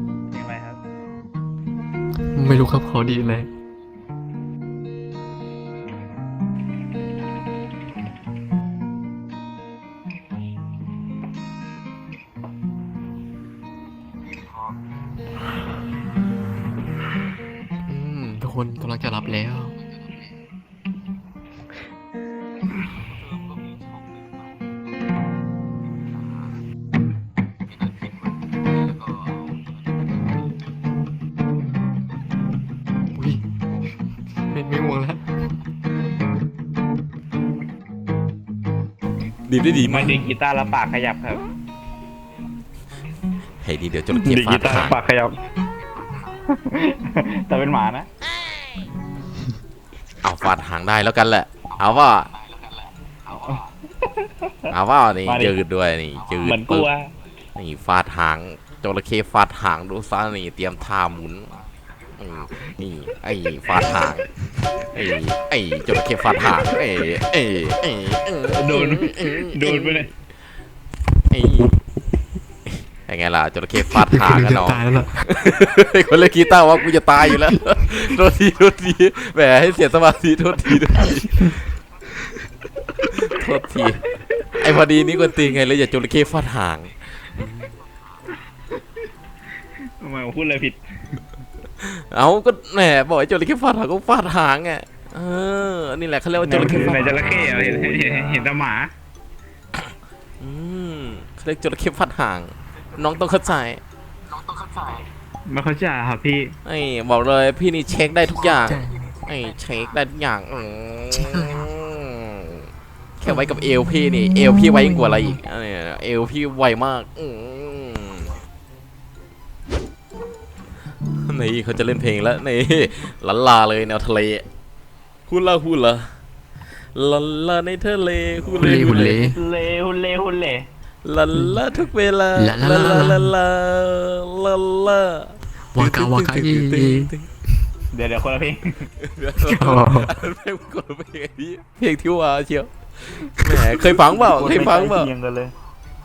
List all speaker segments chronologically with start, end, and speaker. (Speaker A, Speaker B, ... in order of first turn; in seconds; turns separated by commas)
Speaker A: 0.3-0.8, Speaker B: 2.3-3.5, Speaker C: 17.9-18.4, Speaker B: 18.4-19.8, Speaker B: 33.1-33.4, Speaker B: 34.5-35.2, Speaker C: 39.5-40.2, Speaker A: 39.8-41.5, Speaker C: 43.6-45.0, Speaker A: 44.1-45.4, Speaker A: 46.5-48.1, Speaker C: 50.2-52.3, Speaker A: 53.3-54.7, Speaker C: 54.7-56.9, Speaker A: 55.2-55.5, Speaker A: 56.4-57.1, Speaker C: 57.6-61.5, Speaker C: 62.2-64.3, Speaker C: 64.9-70.0, Speaker A: 68.6-70.1, Speaker C: 71.3-71.8, Speaker C: 73.0-81.6, Speaker B: 73.8-75.1, Speaker C: 83.1-84.0, Speaker C: 84.6-87.7, Speaker A: 90.0-91.2, Speaker C: 91.8-98.4, Speaker A: 96.4-98.9, Speaker C: 100.4-103.8, Speaker A: 105.5-106.5, Speaker C: 106.7-112.6, Speaker B: 108.5-109.2, Speaker B: 111.1-111.7, Speaker C: 113.2-118.3, Speaker B: 114.1-115.3, Speaker C: 121.2-124.5, Speaker C: 125.3-126.1, Speaker C: 127.0-129.3, Speaker B: 128.6-129.4, Speaker A: 128.7-130.7, Speaker C: 131.0-137.3, Speaker B: 132.4-133.3, Speaker B: 135.7-137.1, Speaker A: 137.9-138.7, Speaker C: 139.0-142.7, Speaker B: 139.4-140.2, Speaker C: 143.3-145.1, Speaker A: 144.1-145.5